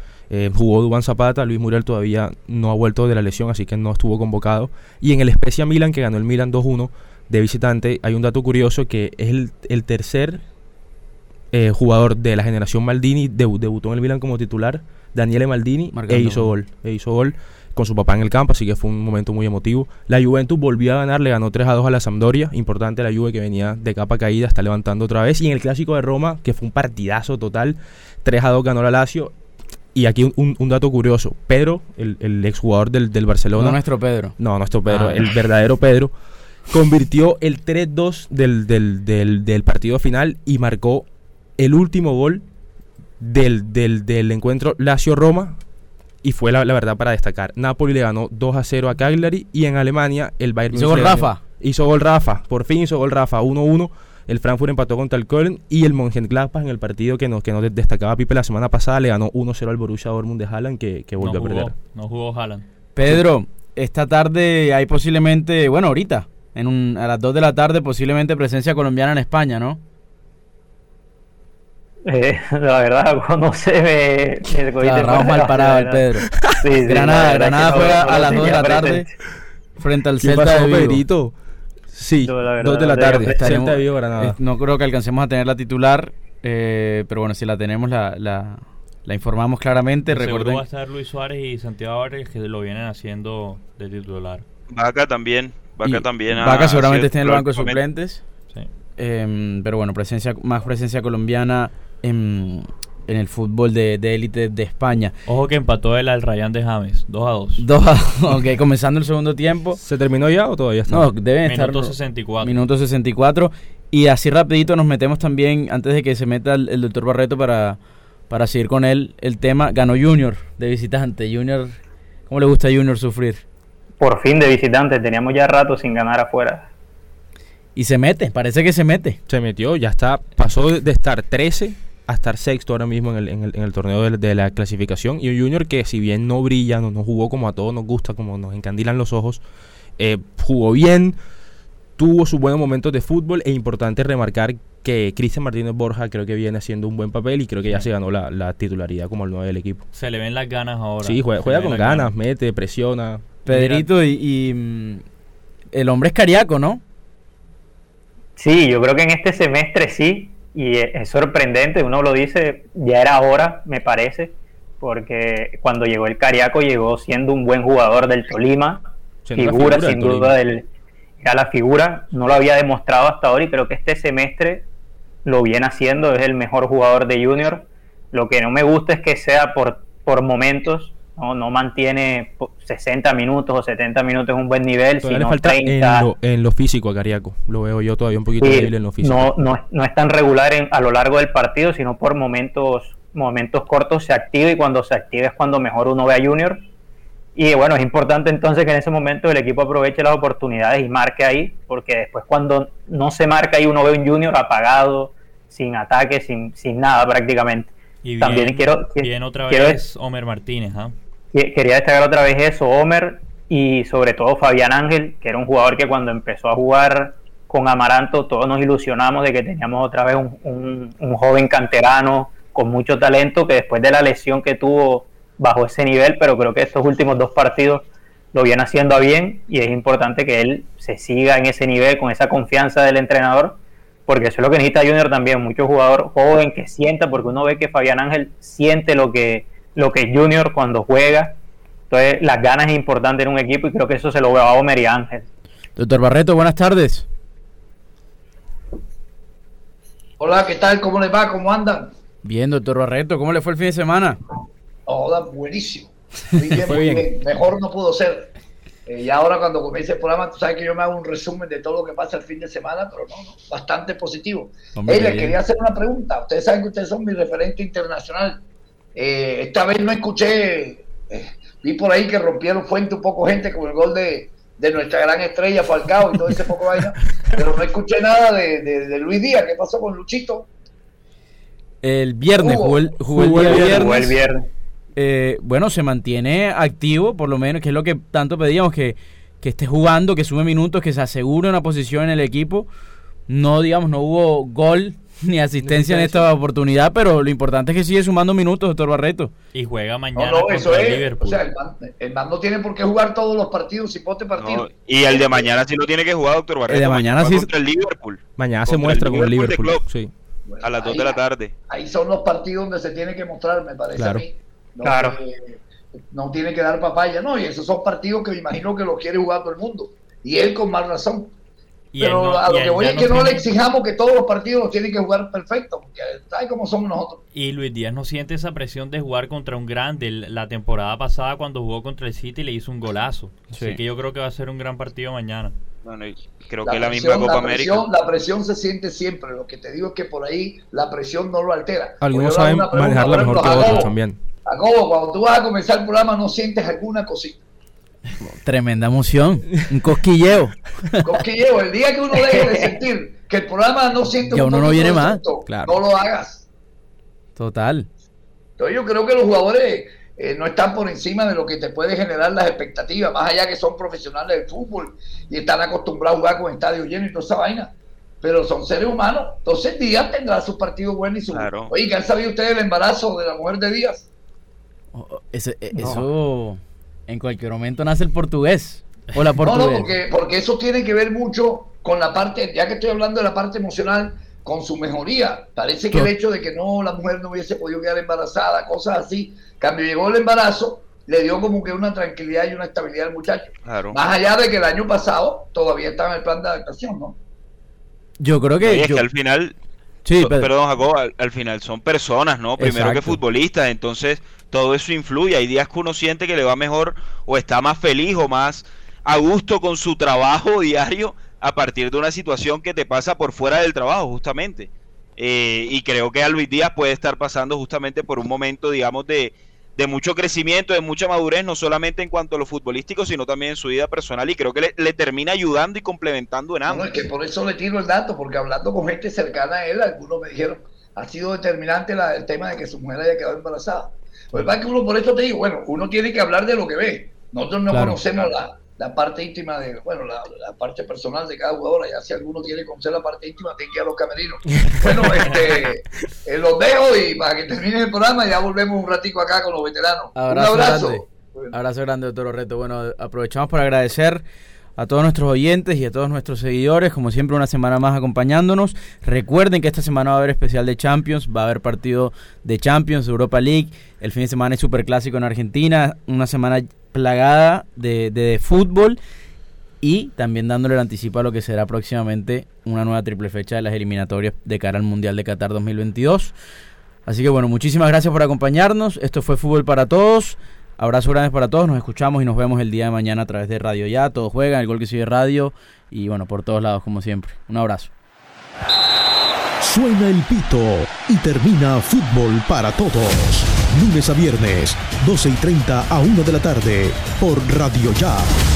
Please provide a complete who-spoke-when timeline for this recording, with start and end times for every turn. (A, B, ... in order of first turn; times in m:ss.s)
0:00.3-0:10.4 A
0:11.5-0:29.3 A
0:15.9-0:16.5 B
0:29.9-0:33.8 A
0:33.6-0:34.3 B
0:34.4-0:36.1 A
0:34.9-0:35.3 B
0:36.7-0:41.0 A
0:41.6-0:42.4 A
0:43.2-0:45.6 A
0:46.2-1:01.7 A
0:50.7-0:51.4 B
1:01.2-1:02.7 C
1:02.9-1:09.8 B
1:12.0-1:19.1 D
1:14.8-1:16.3 B
1:16.8-1:19.1 B
1:19.8-1:21.0 B
1:20.2-1:21.3 A
1:21.9-1:24.4 A
1:22.2-1:23.5 D
1:23.2-1:30.6 B
1:30.1-1:34.4 C
1:34.7-1:37.8 E
1:35.8-1:38.2 B
1:39.0-1:45.1 B
1:45.2-1:47.6 C
1:47.6-1:49.8 B
1:49.8-1:51.1 A
1:50.9-1:57.8 B
1:51.4-1:52.6 C
1:58.3-2:03.4 B
2:04.0-2:06.7 D
2:07.8-2:09.2 B
2:09.3-2:19.4 A
2:20.0-2:21.2 A
2:22.0-2:29.8 A
2:29.9-2:32.1 C
2:31.0-2:33.2 A
2:33.4-2:35.0 B
2:33.5-2:33.9 C
2:35.7-2:36.8 B
2:38.4-2:48.8 D
2:49.2-2:50.4 A
2:49.4-2:50.7 D
2:51.2-2:54.6 D
2:55.2-3:06.1 D
3:05.0-3:09.3 A
3:08.4-3:16.6 D
3:17.3-3:29.8 D
3:28.0-3:30.9 C
3:31.3-4:01.4 D
4:01.9-4:05.3 D
4:05.8-4:07.0 B
4:10.2-4:11.9 F
4:12.2-4:14.2 B
4:14.9-4:18.3 F
4:16.6-4:17.0 A
4:18.8-4:28.4 F
4:24.7-4:25.4 B
4:28.9-4:40.5 F
4:41.8-4:44.2 B
4:42.3-4:42.9 F
4:43.1-4:44.0 A
4:43.3-4:44.4 D
4:45.0-4:52.7 B
4:53.3-4:59.3 B
4:55.7-4:56.2 C
4:59.5-5:01.4 C
5:00.1-5:05.5 F
5:04.4-5:09.8 E
5:06.7-5:07.5 B
5:08.4-5:10.1 A
5:10.4-5:15.6 F
5:10.6-5:11.5 E
5:14.0-5:14.2 A
5:14.8-5:15.2 D
5:16.1-5:21.3 F
5:21.9-5:23.4 C
5:22.0-5:27.2 F
5:27.3-5:35.5 C
5:33.5-5:33.8 B
5:35.8-5:37.8 E
5:36.6-5:43.9 F
5:42.0-5:44.2 A
5:44.4-5:47.4 F
5:48.2-5:51.1 B
5:51.0-5:56.4 F
5:52.3-5:52.7 D
5:54.3-5:55.2 B
5:55.5-5:55.8 A
5:57.4-5:57.9 B
5:58.6-6:14.1 F
6:11.3-6:11.7 E
6:14.9-6:19.9 B
6:19.4-6:37.2 F
6:33.6-6:34.0 E
6:38.2-6:39.0 B
6:38.6-6:39.6 E
6:40.0-6:40.5 B
6:40.2-7:07.0 E
6:42.6-6:43.2 B
7:06.7-7:31.5 F
7:17.7-7:18.0 A
7:30.1-7:34.2 B
7:34.8-7:49.0 B
7:49.8-7:56.3 B
7:57.0-8:07.9 B
8:09.6-8:18.3 G